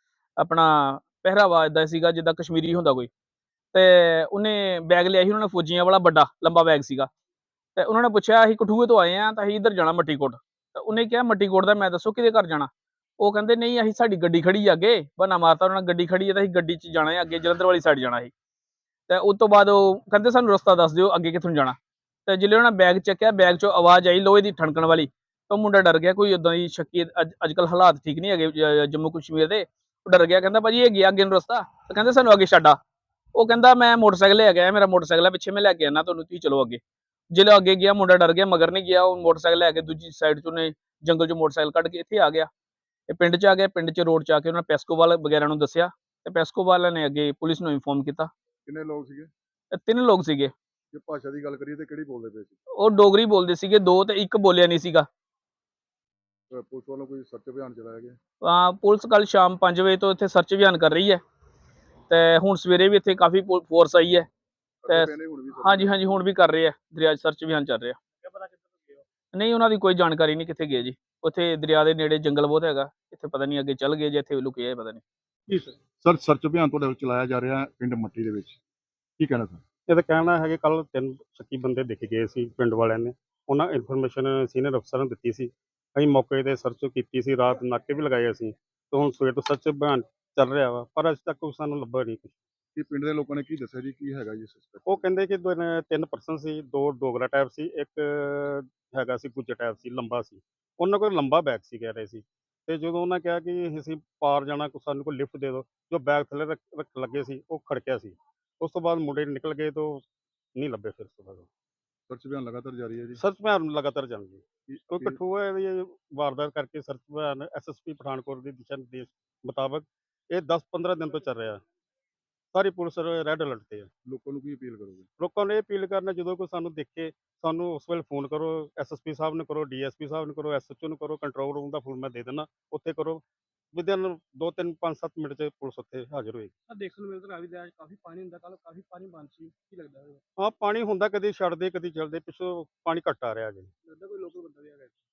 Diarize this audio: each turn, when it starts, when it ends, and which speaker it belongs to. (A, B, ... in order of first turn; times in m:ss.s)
0:00.4-0:03.1 A
0:03.7-0:07.1 A
0:07.8-0:18.3 A
0:19.1-0:32.8 A
0:33.4-0:36.8 A
0:37.3-0:42.5 A
0:43.1-0:48.3 A
0:48.6-0:49.3 B
0:49.7-0:50.5 A
0:50.9-0:52.6 B
0:52.8-0:55.1 A
0:56.5-0:58.2 B
0:58.4-1:01.2 A
1:02.1-1:04.3 A
1:04.8-1:06.1 B
1:04.9-1:08.0 A
1:09.3-1:15.0 A
1:15.5-1:18.6 B
1:19.2-1:19.6 B
1:19.9-1:32.4 C
1:32.8-1:35.0 B
1:34.9-1:50.0 C
1:50.6-1:51.5 C
1:52.1-1:53.2 B
1:53.2-2:01.6 C
1:54.7-1:55.2 B
2:02.5-2:03.9 C
2:04.0-2:05.1 B
2:05.2-2:13.2 C
2:13.7-2:16.5 C
2:16.7-2:18.3 D
2:19.4-2:20.2 D
2:20.4-2:23.7 C
2:23.9-2:24.9 D